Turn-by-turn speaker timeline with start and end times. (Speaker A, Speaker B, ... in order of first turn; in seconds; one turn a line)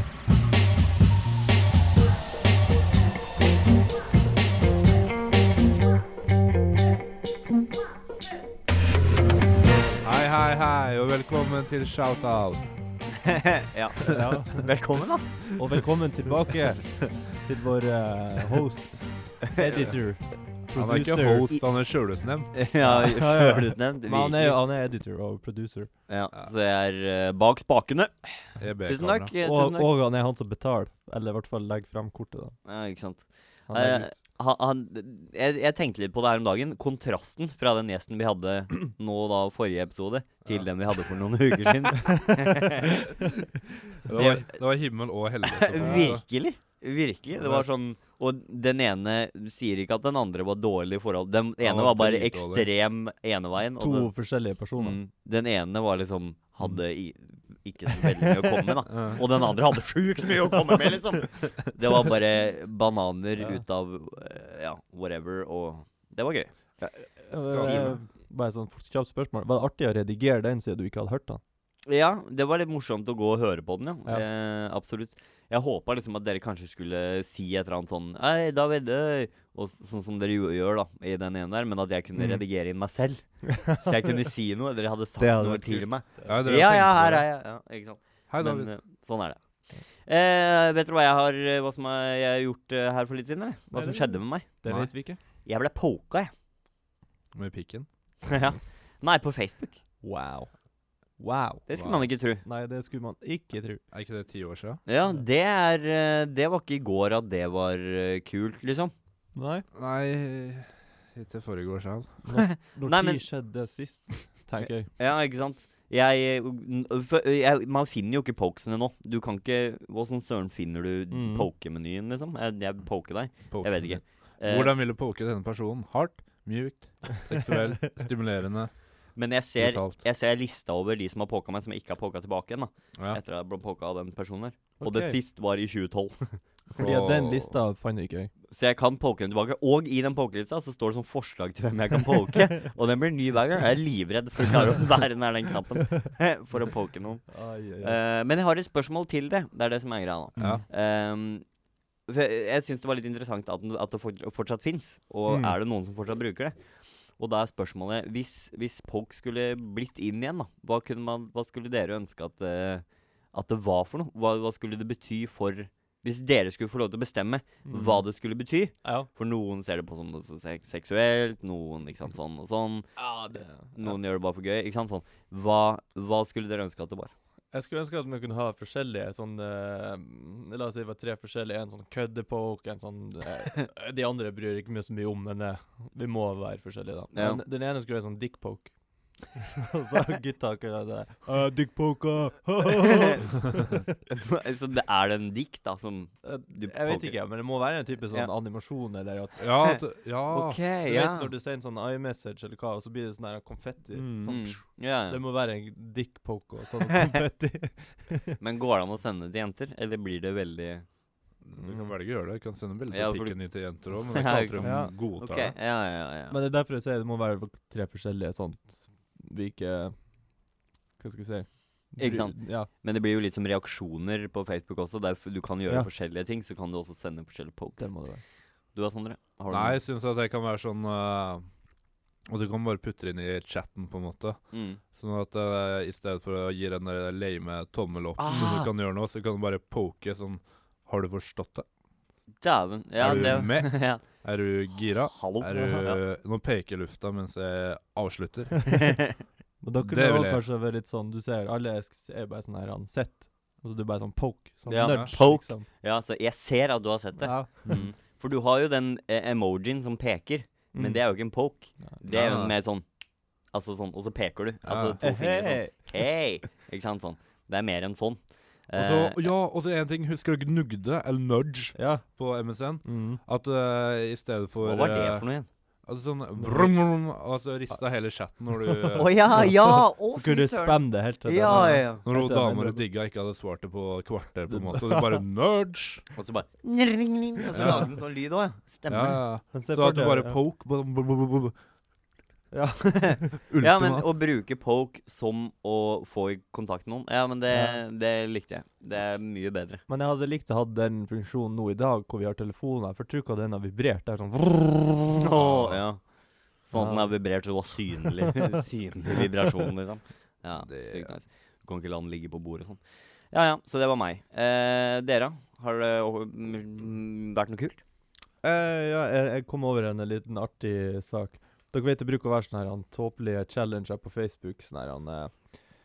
Speaker A: 9.6-10.0
Speaker B: 9.9-12.7
Speaker C: 13.2-15.5
Speaker A: 14.0-14.6
Speaker A: 15.6-21.5
Speaker C: 19.5-19.9
Speaker B: 20.8-22.5
Speaker C: 22.5-24.6
Speaker A: 22.8-25.9
Speaker C: 26.1-29.9
Speaker B: 28.6-29.3
Speaker A: 29.4-32.6
Speaker C: 32.7-43.2
Speaker A: 33.7-34.1
Speaker C: 44.1-44.6
Speaker B: 44.1-46.2
Speaker C: 45.5-54.2
Speaker A: 45.8-46.2
Speaker B: 47.4-47.7
Speaker B: 51.6-52.7
Speaker A: 53.8-55.0
Speaker C: 54.8-66.5
Speaker A: 58.0-58.5
Speaker B: 58.9-59.2
Speaker A: 66.8-71.4
Speaker B: 67.4-68.0
Speaker C: 67.6-68.0
Speaker C: 71.9-89.4
Speaker A: 82.2-82.4
Speaker A: 83.5-84.0
Speaker A: 85.2-86.4
Speaker B: 86.2-87.3
Speaker B: 88.3-88.7
Speaker C: 90.1-94.5
Speaker A: 93.7-95.2
Speaker C: 95.5-96.3
Speaker B: 97.3-97.9
Speaker C: 98.3-99.8
Speaker A: 100.0-100.5
Speaker A: 101.2-101.7
Speaker C: 101.7-102.4
Speaker B: 101.7-102.1
Speaker A: 102.4-103.8
Speaker B: 103.9-104.8
Speaker C: 104.9-108.9
Speaker A: 109.3-109.6
Speaker B: 109.7-112.2
Speaker A: 112.3-114.9
Speaker C: 112.3-113.2
Speaker C: 114.8-124.7
Speaker A: 121.1-121.5
Speaker B: 123.5-128.7
Speaker C: 129.2-136.4
Speaker B: 129.6-130.0
Speaker A: 134.8-135.2
Speaker A: 136.7-138.3
Speaker B: 136.7-137.5
Speaker C: 138.5-151.4
Speaker A: 147.3-148.0
Speaker B: 150.4-150.6
Speaker C: 152.1-156.6
Speaker A: 155.3-155.5
Speaker C: 157.2-177.1
Speaker A: 167.6-168.0
Speaker A: 168.8-169.1
Speaker A: 173.0-174.0
Speaker A: 177.5-188.7
Speaker C: 187.1-187.4
Speaker A: 189.3-193.9
Speaker C: 192.7-193.2
Speaker C: 194.1-197.1
Speaker A: 196.2-199.6
Speaker B: 199.4-200.6
Speaker C: 200.3-201.3
Speaker A: 200.8-208.4
Speaker B: 203.9-204.4
Speaker C: 204.3-205.2
Speaker C: 208.4-210.8
Speaker B: 211.4-215.6
Speaker A: 211.6-211.9
Speaker C: 212.9-216.4
Speaker A: 214.6-214.9
Speaker A: 216.3-220.0
Speaker A: 221.0-222.7
Speaker C: 222.0-227.9
Speaker A: 227.8-228.2
Speaker C: 228.7-229.8
Speaker B: 229.5-231.4
Speaker B: 232.3-234.4
Speaker C: 234.5-234.8
Speaker B: 234.9-241.7
Speaker C: 238.2-238.7
Speaker C: 242.4-244.0
Speaker B: 243.0-248.7
Speaker C: 245.1-246.0
Speaker A: 249.6-255.7
Speaker B: 249.8-250.4
Speaker C: 254.7-262.8
Speaker B: 254.9-255.1
Speaker A: 257.2-257.6
Speaker A: 260.7-261.0
Speaker B: 262.1-262.6
Speaker C: 263.5-269.2
Speaker B: 264.6-265.0
Speaker A: 265.0-265.9
Speaker B: 268.8-275.3
Speaker A: 271.8-272.1
Speaker A: 272.8-273.2
Speaker C: 274.6-275.5
Speaker B: 275.9-279.4
Speaker A: 276.4-276.7
Speaker C: 278.9-282.0
Speaker A: 279.4-282.8
Speaker B: 281.4-286.1
Speaker A: 284.5-285.2
Speaker C: 286.1-289.2
Speaker B: 287.5-287.9
Speaker B: 288.9-291.6
Speaker A: 289.5-290.4
Speaker A: 292.5-293.3
Speaker C: 293.3-299.8
Speaker B: 293.5-294.1
Speaker A: 297.5-297.8
Speaker A: 299.9-305.2
Speaker C: 305.2-306.0
Speaker B: 305.4-305.8
Speaker C: 306.6-312.8
Speaker A: 306.7-307.2
Speaker B: 310.6-311.1
Speaker C: 313.3-317.8
Speaker A: 318.4-325.4